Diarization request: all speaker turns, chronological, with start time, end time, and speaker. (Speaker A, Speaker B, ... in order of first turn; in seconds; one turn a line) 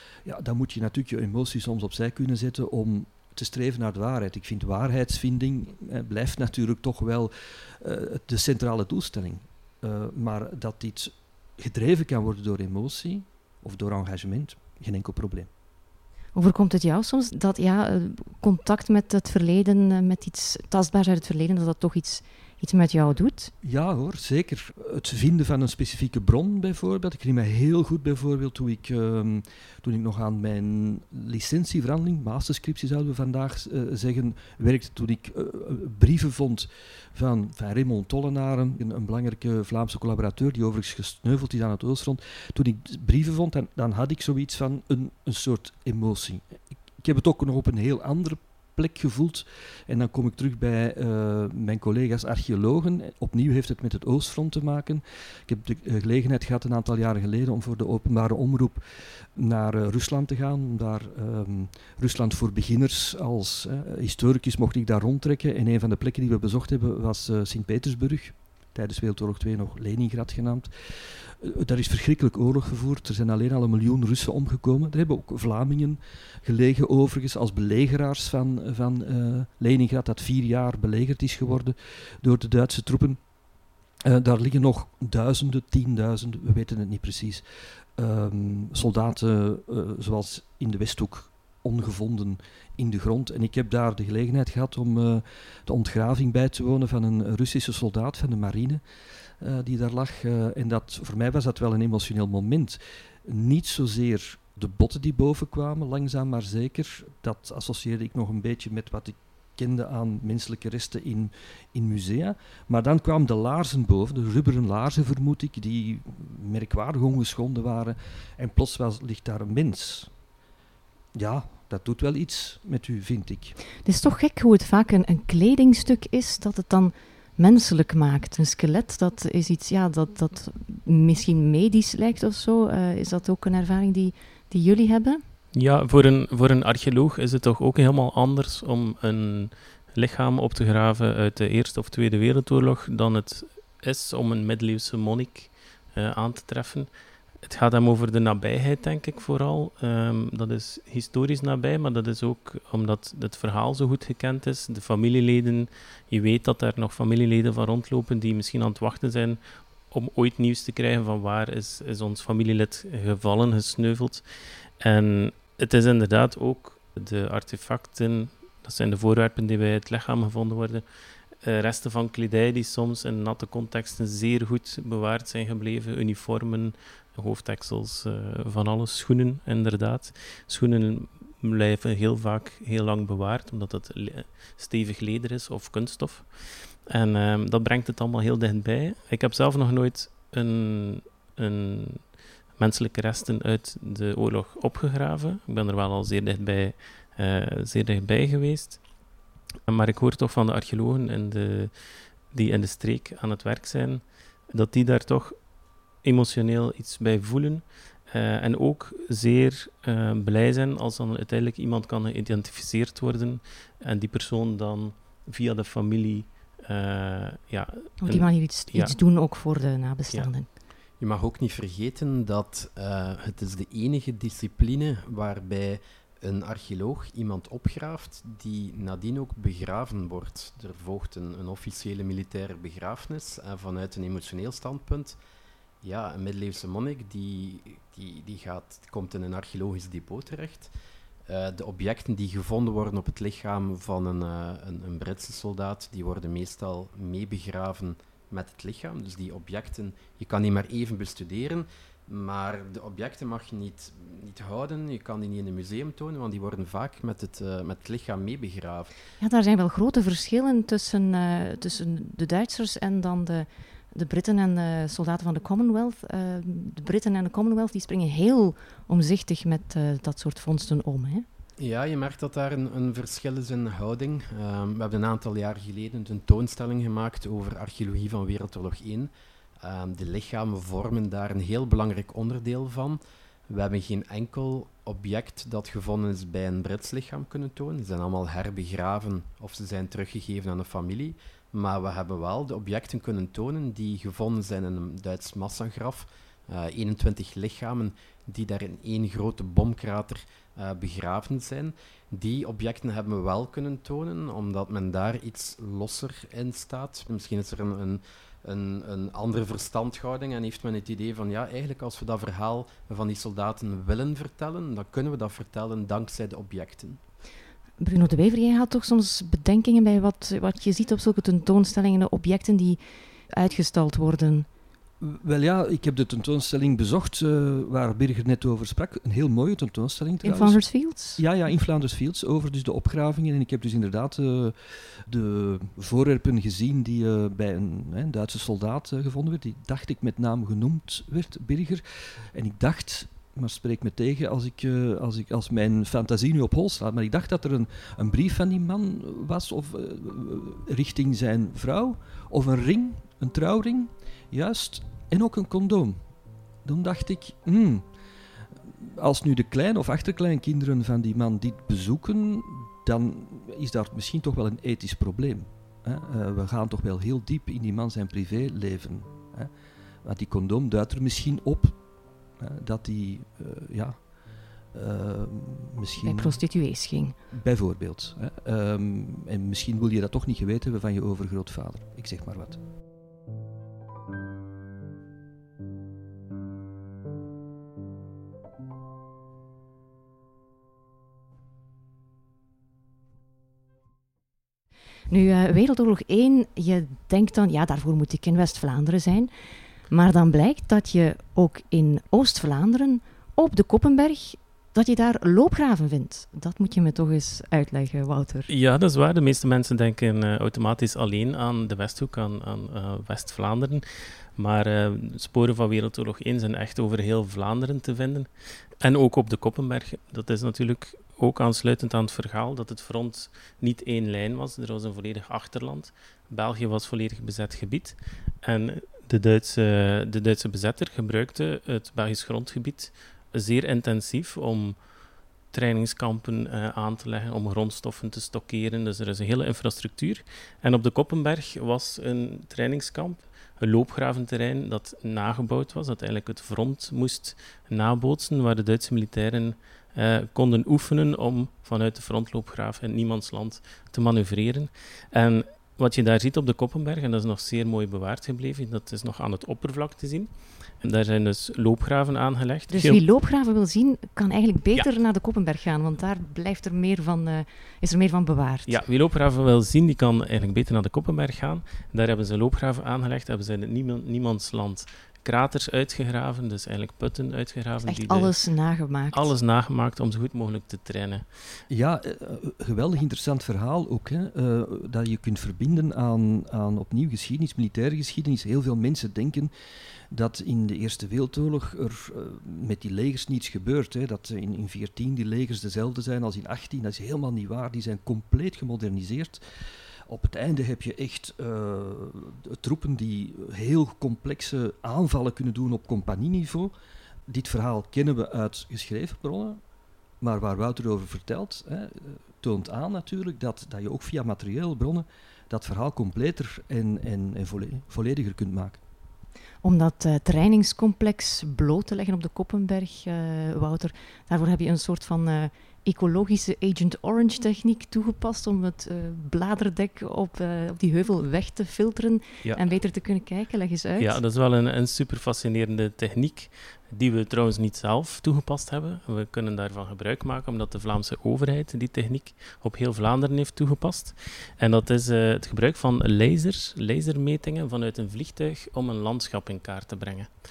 Speaker A: 0.2-15.5
Speaker B: 16.3-23.5
Speaker A: 23.6-83.2
Speaker A: 84.0-87.4
Speaker A: 88.0-98.8
Speaker A: 99.4-120.1
Speaker A: 121.1-123.5
Speaker B: 123.8-135.2
Speaker C: 135.5-146.9
Speaker C: 147.4-164.2
Speaker C: 164.8-170.8
Speaker C: 171.4-192.0
Speaker C: 192.6-198.8
Speaker C: 199.7-201.7
Speaker C: 202.3-205.3
Speaker C: 206.0-218.9
Speaker B: 218.0-220.5
Speaker D: 221.0-235.2
Speaker D: 235.8-240.7
Speaker D: 241.3-258.9
Speaker B: 259.2-271.2
Speaker D: 271.6-317.0
Speaker B: 317.8-322.8
Speaker B: 323.3-324.5
Speaker A: 325.0-330.6
Speaker B: 330.2-331.2
Speaker A: 331.1-356.0
Speaker A: 356.6-357.9
Speaker A: 358.6-369.5
Speaker A: 370.0-371.8
Speaker A: 372.4-374.0
Speaker A: 374.7-376.4
Speaker B: 376.0-377.1
Speaker A: 377.3-382.6
Speaker B: 395.1-399.3
Speaker B: 399.9-408.5
Speaker C: 408.5-418.3
Speaker C: 418.8-434.8
Speaker C: 435.5-463.0
Speaker B: 462.7-468.8
Speaker C: 468.7-478.3
Speaker B: 477.9-479.3
Speaker C: 479.1-481.2
Speaker A: 481.7-489.5
Speaker A: 490.1-499.4
Speaker A: 500.1-506.7
Speaker A: 507.3-509.6
Speaker A: 510.2-518.8
Speaker B: 519.6-534.2
Speaker C: 534.0-550.3